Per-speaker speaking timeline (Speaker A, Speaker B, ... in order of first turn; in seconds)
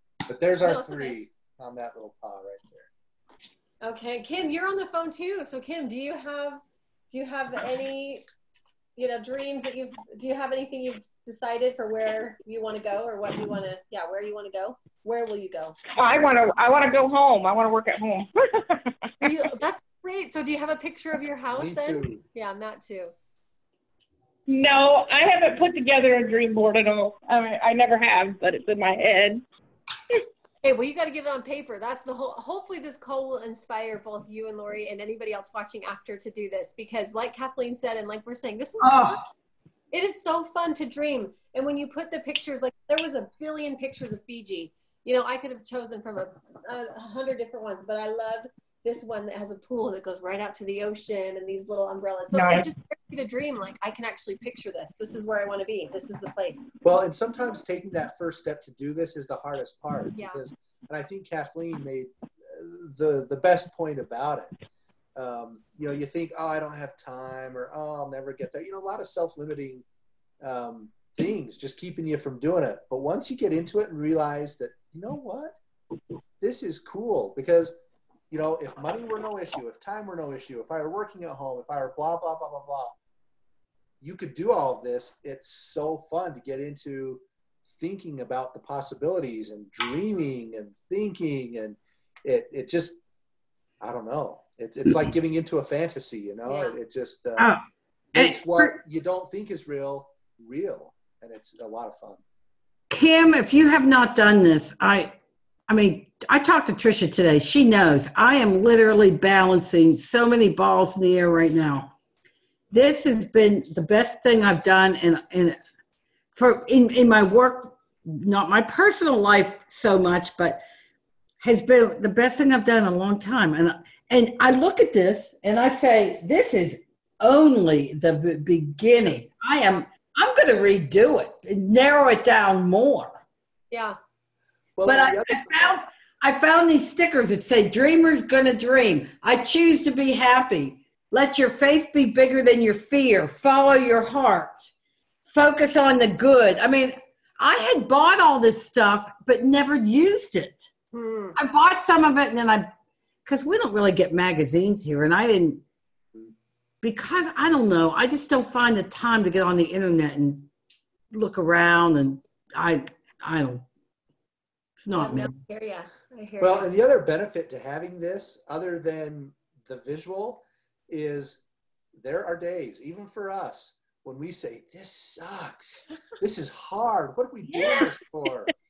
Speaker A: 0.3-2.9, 21.6-22.2, 56.8-64.5, 65.2-69.8, 70.4-75.6, 76.4-77.8, 78.3-83.0, 84.0-87.2, 87.8-93.0, 93.8-97.5, 98.1-102.2, 134.8-135.8, 166.4-171.4, 172.0-178.5
Speaker B: 0.6-1.2, 3.8-8.2, 9.0-15.8, 19.2-23.1, 30.6-39.2, 39.9-56.7, 60.1-60.4, 96.5-96.8, 133.7-134.0, 150.9-151.4, 164.9-166.7
Speaker C: 16.0-18.9, 24.5-29.4, 52.3-52.7
Speaker D: 38.8-39.2, 97.4-97.6, 98.2-98.8, 102.9-105.1, 105.7-111.9, 112.7-115.6, 116.3-120.6, 121.4-133.2, 134.8-144.7, 145.3-150.7, 151.3-152.7, 153.2-155.6, 156.8-160.5, 161.1-163.7, 164.8-165.3